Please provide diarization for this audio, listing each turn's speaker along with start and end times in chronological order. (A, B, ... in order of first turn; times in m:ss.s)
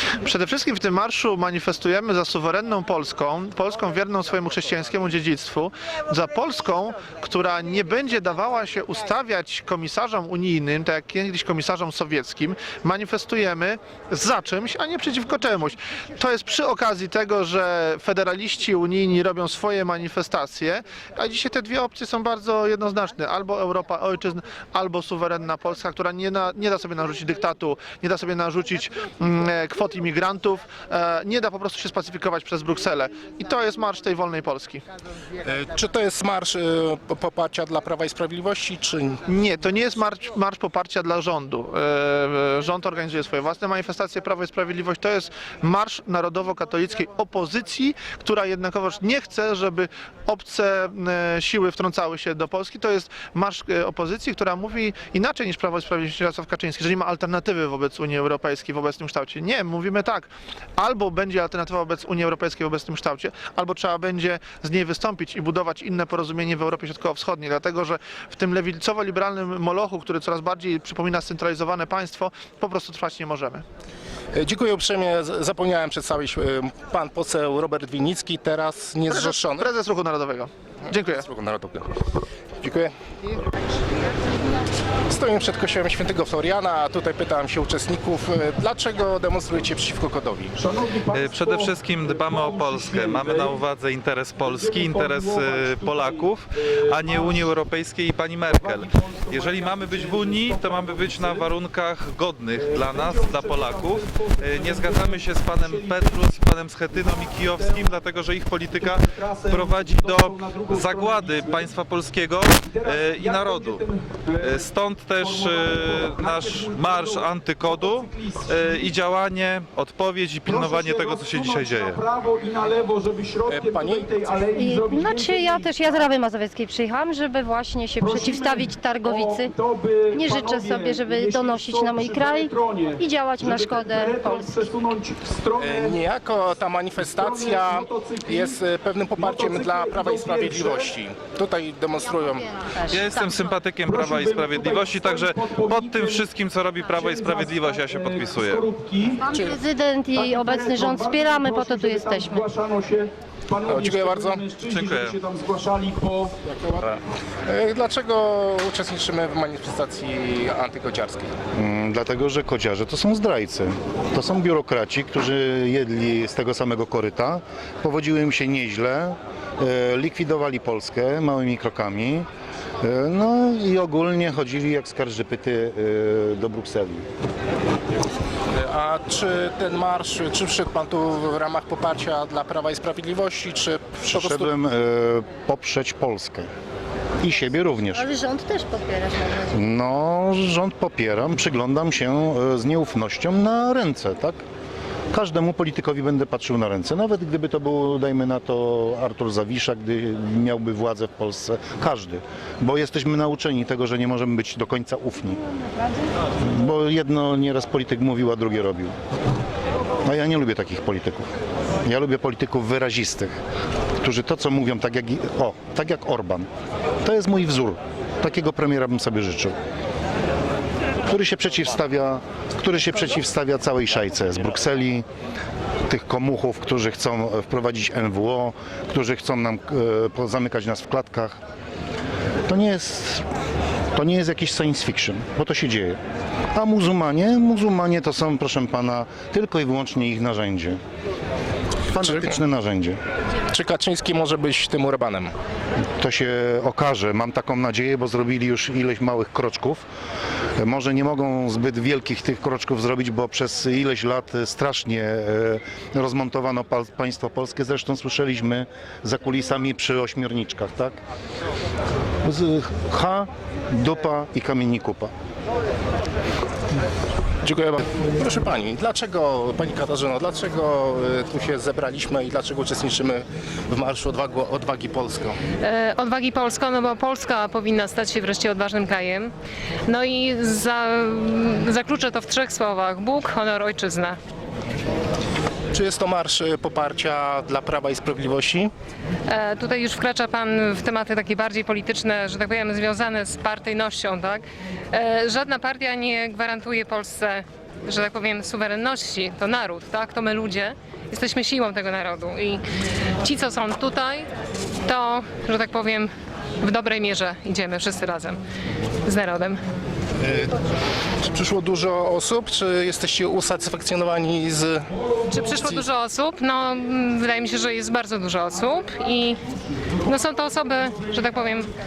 0:00.2-0:34.8 A
0:35.4-0:39.2 B
0:39.3-1:13.6 A
1:14.3-1:19.7 B
1:19.1-1:21.2 A
1:21.2-1:21.9 B
1:22.6-1:23.4 B
1:25.1-1:30.6 B
1:30.6-1:33.6 C
1:31.1-1:53.8 D
1:34.4-1:37.4 C
1:38.5-1:41.5 C
1:42.5-1:46.4 C
1:46.9-1:47.9 C
1:48.8-1:51.7 C
1:52.7-1:54.6 C
1:54.4-2:02.0 D
1:55.2-1:58.9 C
2:00.4-2:06.0 C
2:03.5-2:04.1 B
2:04.5-2:09.5 E
2:08.0-2:16.0 C
2:10.1-2:14.8 E
2:15.6-2:22.6 B
2:17.0-2:18.6 C
2:19.2-2:21.0 C
2:22.8-2:23.4 E
2:22.9-2:28.7 D
2:23.9-2:26.2 C
2:27.0-2:29.2 C
2:29.3-2:32.5 E
2:29.3-2:29.6 B
2:30.1-2:36.3 C
2:33.7-2:34.5 B
2:34.6-2:35.2 D
2:36.4-2:41.3 B
2:41.5-2:52.3 F
2:52.8-2:57.1 F
2:58.5-3:04.5 B
3:04.0-3:06.5 F
3:07.2-3:08.1 F
3:07.9-3:09.4 E
3:09.5-3:14.4 F
3:15.1-3:25.4 F
3:26.4-3:28.9 F
3:30.0-3:31.3 F
3:31.8-3:33.4 F
3:34.0-3:36.5 F
3:37.0-3:39.6 F
3:41.0-3:45.0 F
3:45.9-3:51.4 F
3:52.5-3:53.2 F
3:53.9-3:56.0 F
3:56.5-4:00.8 F
4:01.9-4:03.0 F
4:02.0-4:02.4 B
4:03.5-4:05.3 B
4:06.0-4:09.9 F
4:10.6-4:21.0 F
4:22.2-4:25.1 F
4:27.4-4:35.4 B
4:35.6-4:39.3 G
4:39.9-4:44.2 G
4:45.7-4:48.7 B
4:49.3-5:02.6 G
5:03.2-5:04.3 G
5:04.8-5:08.4 G
5:09.0-5:09.6 G
5:10.2-5:10.5 B
5:11.2-5:14.9 B
5:15.3-5:19.4 G
5:15.5-5:15.8 B
5:20.0-5:21.7 G